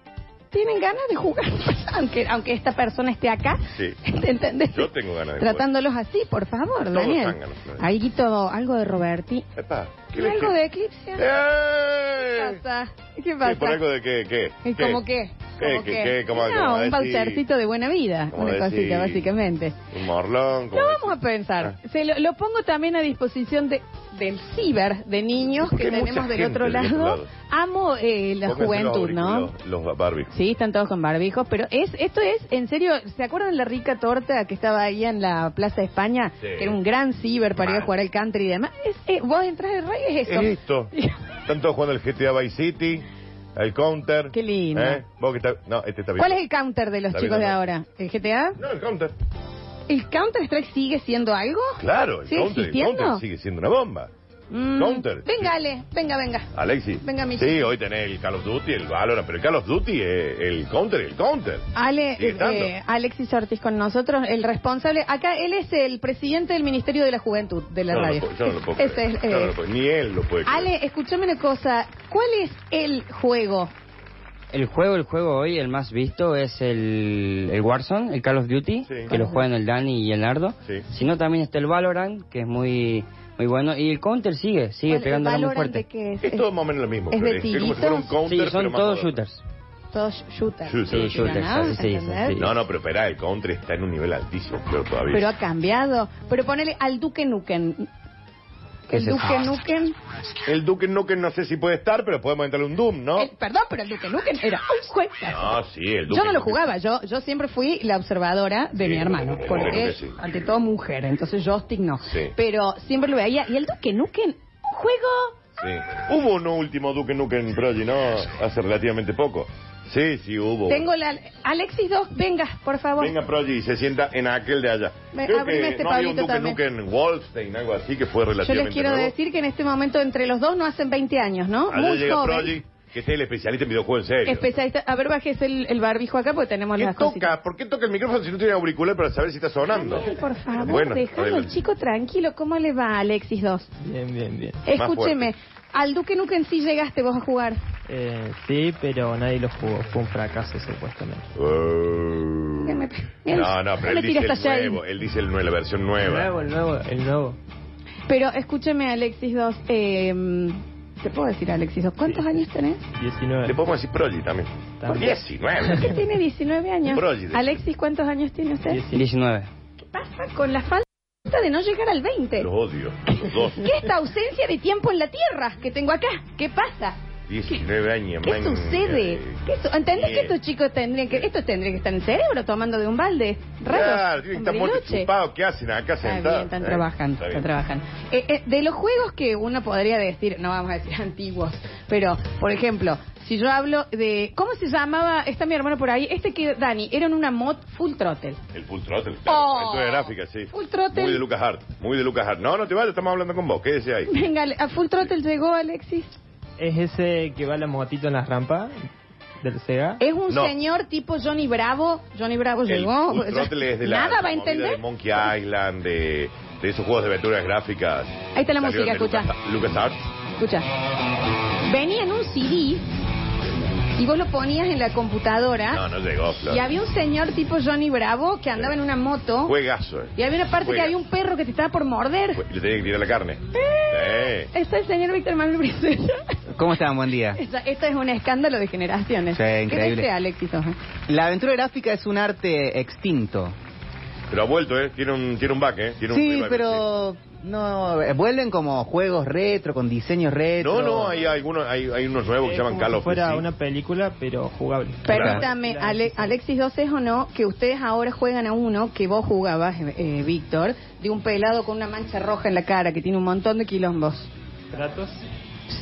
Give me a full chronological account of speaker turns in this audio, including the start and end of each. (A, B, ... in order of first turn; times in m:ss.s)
0:00.5-0:09.4 A
0:04.7-0:05.6 B
0:06.9-0:07.8 B
0:09.6-0:10.5 B
0:10.1-0:11.2 A
0:11.2-0:12.6 B
0:12.2-0:13.8 A
0:13.4-0:15.0 B
0:14.6-0:19.8 A
0:15.6-0:17.4 B
0:18.3-0:19.3 B
0:19.9-0:21.7 B
0:20.7-0:29.5 A
0:25.6-0:27.3 B
0:28.4-0:30.3 B
0:30.3-0:41.2 A
0:36.4-0:36.8 B
0:37.6-0:37.9 B
0:40.2-0:40.9 B
0:41.5-0:43.0 B
0:43.6-0:46.4 B
0:44.3-0:45.0 A
0:46.2-0:48.6 A
0:47.1-0:47.6 B
0:48.6-0:49.1 B
0:49.9-0:53.2 A
0:51.8-0:54.1 B
0:54.5-0:56.5 A
0:54.7-0:55.5 B
0:56.5-1:01.6 B
0:57.0-0:57.7 A
1:01.7-1:09.6 A
1:02.2-1:02.7 B
1:07.9-1:10.7 B
1:10.4-1:13.7 A
1:14.5-1:25.8 C
1:18.8-1:19.1 B
1:19.1-1:19.5 A
1:24.9-1:26.5 A
1:26.2-1:29.2 B
1:27.1-1:28.1 A
1:28.2-1:29.4 C
1:29.9-1:32.4 A
1:30.6-1:31.7 B
1:30.9-1:32.4 C
1:32.4-1:35.3 B
1:35.1-1:37.9 A
1:38.9-1:39.2 C
1:38.9-1:39.9 A
1:40.4-1:43.3 B
1:43.2-1:45.5 A
1:45.3-1:46.6 B
1:46.1-1:55.3 A
1:48.8-1:50.2 B
1:52.0-1:52.3 B
1:55.6-2:00.9 B
2:00.7-2:03.1 A
2:03.0-2:09.1 B
2:05.1-2:06.6 A
2:08.4-2:12.6 A
2:11.7-2:14.5 B
2:14.2-2:17.3 A
2:16.8-2:21.5 B
2:19.7-2:23.7 A
2:23.8-2:24.6 D
2:24.6-2:27.6 A
2:24.7-2:25.3 B
2:27.9-2:31.3 D
2:31.4-2:36.3 B
2:32.6-2:34.8 A
2:36.0-2:37.4 D
2:38.1-2:42.8 A
2:43.0-2:43.6 D
2:43.4-2:45.9 B
2:44.8-2:45.9 D
2:44.8-2:48.8 A
2:46.9-2:47.6 B
2:48.7-2:49.1 D
2:48.9-2:49.5 C
2:49.9-2:52.5 A
2:52.4-2:53.8 B
2:53.0-2:57.0 A
2:57.3-2:59.3 B
2:58.2-3:05.1 A
2:59.9-3:00.3 B
3:03.7-3:07.5 B
3:06.0-3:18.4 A
3:18.5-3:24.2 B
3:19.3-3:21.2 A
3:24.1-3:26.1 A
3:26.6-3:28.7 D
3:29.4-3:30.0 D
3:30.0-3:34.8 A
3:32.7-3:40.0 B
3:38.3-3:39.3 A
3:40.4-3:40.6 A
3:41.6-3:42.8 A
3:43.9-3:45.8 A
3:45.7-3:46.6 B
3:46.5-3:49.5 A
3:49.4-3:50.9 B
3:50.2-3:52.4 A
3:52.4-3:53.4 B
3:53.5-3:56.2 A
3:53.9-3:54.5 B
3:56.5-3:57.4 E
3:57.3-4:00.7 A
3:59.3-4:00.1 E
4:01.1-4:03.5 E
4:04.3-4:06.8 B
4:06.1-4:11.2 E
4:10.6-4:13.4 B
4:12.4-4:16.3 D
4:15.0-4:24.3 A
4:15.1-4:15.4 B
4:24.7-4:25.2 D